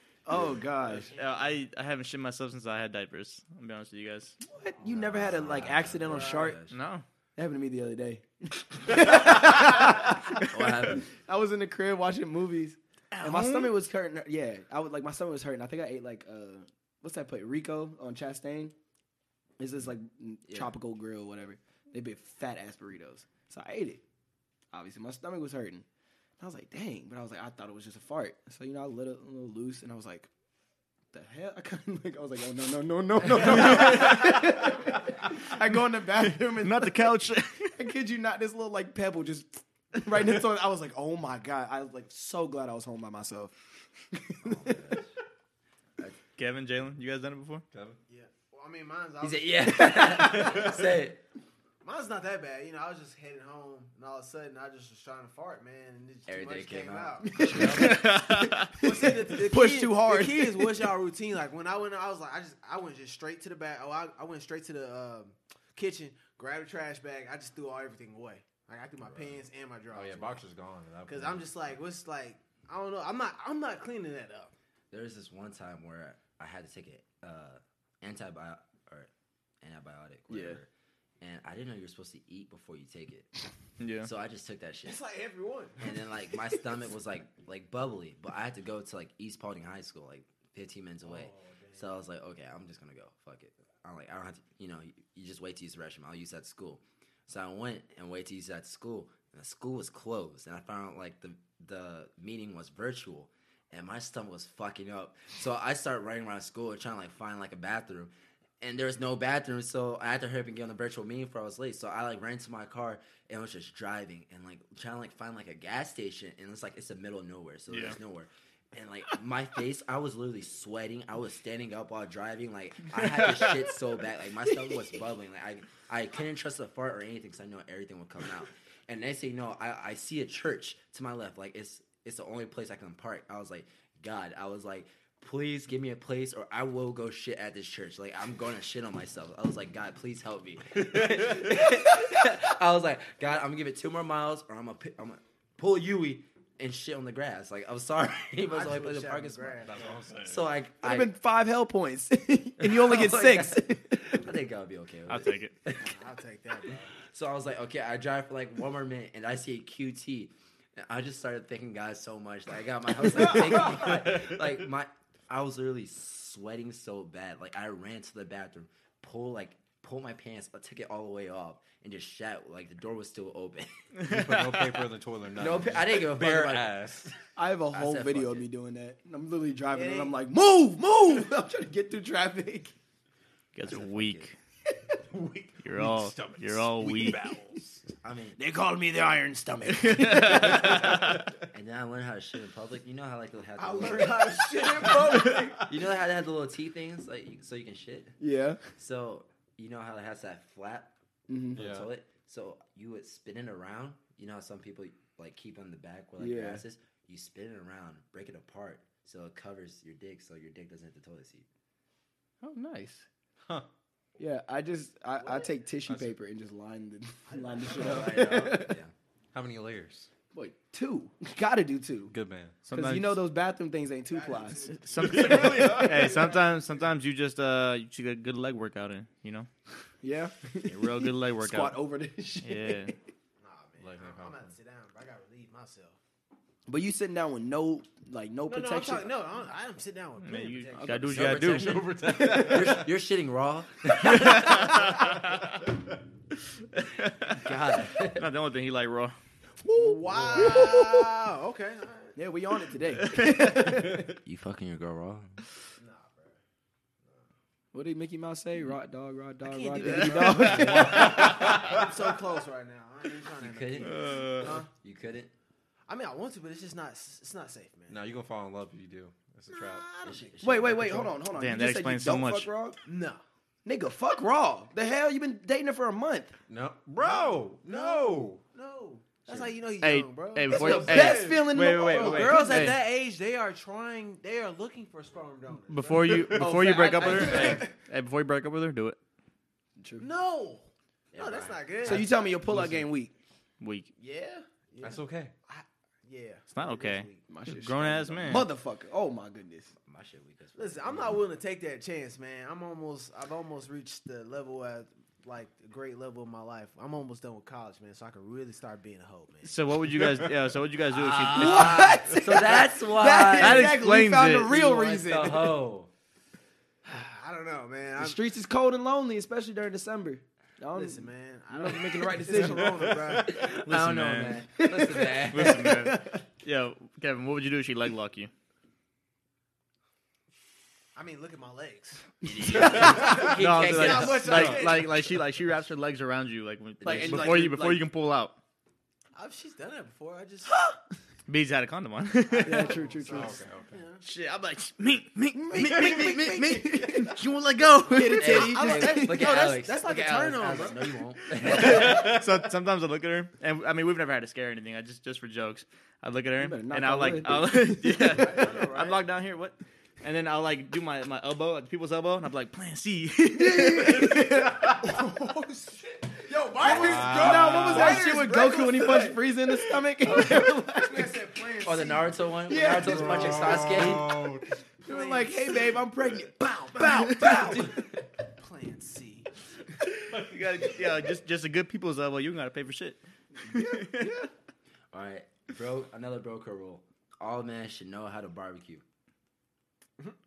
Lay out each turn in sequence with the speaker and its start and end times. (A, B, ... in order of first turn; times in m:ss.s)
0:00.3-0:01.1 A
0:00.8-0:01.5 B
0:01.1-0:04.4 C
0:04.4-0:06.6 A
0:04.8-0:06.8 D
0:06.1-0:06.5 B
0:06.7-0:07.0 C
0:07.4-0:18.7 A
0:09.6-0:11.1 D
0:13.1-0:13.8 C
0:19.6-0:24.0 A
0:20.5-0:20.7 D
0:24.7-0:25.8 A
0:26.4-0:30.3 A
0:31.1-0:37.2 A
0:33.4-0:34.7 C
0:36.5-0:37.8 C
0:37.8-0:43.5 A
0:44.1-0:45.0 A
0:44.4-0:45.1 D
0:46.4-0:47.6 C
0:47.7-0:48.0 E
0:48.1-0:50.8 B
0:49.2-0:51.2 D
0:51.8-0:57.5 B
0:56.3-0:57.9 D
0:57.3-1:00.9 A
0:57.5-0:57.9 E
0:57.7-0:58.8 C
0:58.8-1:10.4 B
1:09.9-1:11.5 E
1:11.1-1:14.5 B
1:14.9-1:19.1 D
1:19.6-1:20.7 D
1:20.3-1:20.6 A
1:21.2-1:23.3 D
1:23.8-1:24.1 C
1:24.0-1:25.0 D
1:24.8-1:25.8 B
1:25.8-2:29.6 D
1:31.0-1:31.9 B
1:57.7-1:58.0 C
2:28.5-2:30.0 B
2:29.6-2:30.5 E
2:30.3-2:31.1 D
2:30.8-2:34.2 A
2:32.6-2:36.0 D
2:35.1-2:35.5 C
2:35.8-2:36.9 B
2:37.1-2:53.9 D
2:43.6-2:44.4 E
2:54.0-2:57.1 E
2:54.0-2:54.6 C
2:55.4-2:57.1 D
2:57.4-3:02.7 A
2:57.7-2:58.5 D
2:59.7-3:00.2 B
3:03.6-3:04.4 C
3:03.6-3:04.3 D
3:05.1-3:07.8 E
3:05.6-3:07.2 C
3:08.0-3:08.4 D
3:08.4-3:11.2 A
3:09.7-3:11.2 C
3:11.5-3:14.9 D
3:13.6-3:15.7 B
3:14.3-3:15.6 A
3:15.6-3:18.2 D
3:18.2-3:18.6 A
3:18.8-3:20.9 D
3:21.3-3:21.6 A
3:21.5-3:31.5 D
3:21.6-3:21.9 E
3:26.2-3:26.6 A
3:32.4-3:33.1 C
3:34.2-3:38.8 A
3:35.2-3:35.5 B
3:35.9-3:36.1 E
3:37.3-3:38.4 B
3:37.7-3:38.9 D
3:39.3-3:40.1 E
3:40.3-3:42.1 A
3:42.1-3:42.6 E
3:42.7-3:43.2 C
3:42.7-3:46.3 A
3:44.1-3:46.9 B
3:44.7-3:49.5 C
3:45.2-3:45.9 E
3:50.0-3:53.0 A
3:50.6-3:51.8 C
3:52.4-3:52.9 C
3:53.4-3:56.0 B
3:53.8-3:54.5 E
3:56.7-3:59.2 A
3:58.5-4:01.4 B
4:00.2-4:01.9 C
4:01.0-4:04.9 D
4:01.6-4:02.8 E
4:02.1-4:02.8 A
4:04.0-4:05.6 C
4:06.7-4:09.2 C
4:07.3-4:08.3 D
4:09.6-4:11.2 A
4:09.8-4:12.2 B
4:12.2-4:14.2 A
4:13.0-4:13.8 C
4:14.2-4:15.4 D
4:15.8-4:16.4 B
4:17.7-4:21.8 A
4:19.4-4:24.7 B
4:19.8-4:20.3 C
4:20.4-4:21.9 E
4:23.4-4:25.3 D
4:23.8-4:24.6 C
4:25.9-4:28.0 B
4:27.9-4:30.0 E
4:29.5-4:30.6 B
4:30.0-4:31.2 D
4:30.4-4:32.8 A
4:31.3-4:32.5 C
4:32.8-4:33.2 B
4:33.6-4:36.4 A
4:36.5-4:38.4 E
4:37.0-4:41.0 B
4:39.3-4:39.5 D
4:39.8-4:42.8 C
4:40.5-4:42.7 A
4:40.5-4:41.5 E
4:41.8-4:47.7 B
4:45.7-4:49.0 C
4:46.0-4:46.5 E
4:46.4-4:47.7 A
4:47.2-4:47.6 E
4:49.8-4:50.1 A
4:50.0-4:52.4 B
4:51.1-4:52.0 D
4:51.8-4:53.1 A
4:52.5-4:52.8 E
4:53.6-4:53.9 C
4:54.0-4:57.2 B
4:54.8-4:55.3 E
4:56.5-4:58.5 C
4:57.3-4:59.7 A
4:59.9-5:01.2 D
5:00.6-5:09.5 B
5:09.4-5:11.9 C
5:10.9-5:13.8 D
5:11.3-5:15.6 A
5:13.4-5:14.5 C
5:14.5-5:15.9 D
5:16.8-5:18.2 B
5:18.0-5:23.0 A
5:20.8-5:23.5 B
5:22.4-5:23.2 E
5:23.2-5:25.7 D
5:23.4-5:24.5 C
5:24.6-5:26.2 A
5:25.3-5:28.3 C
5:31.0-5:35.2 B
5:32.2-5:34.7 D
5:32.6-5:33.2 A
5:32.8-5:38.4 C
5:36.8-5:37.3 D
5:36.8-5:37.9 A
5:39.2-5:40.5 B
5:41.3-5:42.8 C
5:42.3-5:44.0 B
5:42.4-5:43.4 A
5:43.0-5:43.8 E
5:44.0-5:48.3 C
5:45.3-5:47.2 A
5:47.9-5:49.3 A
5:48.1-5:52.2 D
5:48.3-5:51.0 B
5:51.4-6:04.2 C
5:51.6-5:52.3 E
5:56.4-5:58.6 A
5:58.1-5:59.0 B
6:03.3-6:05.1 A
6:04.6-6:13.6 B
6:06.6-6:11.2 A
6:06.6-6:08.1 E
6:11.6-6:14.2 D
6:12.5-6:13.4 A
6:12.8-6:14.5 E
6:14.8-6:17.8 A
6:14.9-6:15.8 B
6:16.7-6:17.8 B
6:17.2-6:17.8 D
6:18.4-6:19.3 B
6:20.1-6:24.1 C
6:23.5-6:24.3 A
6:24.9-6:28.8 D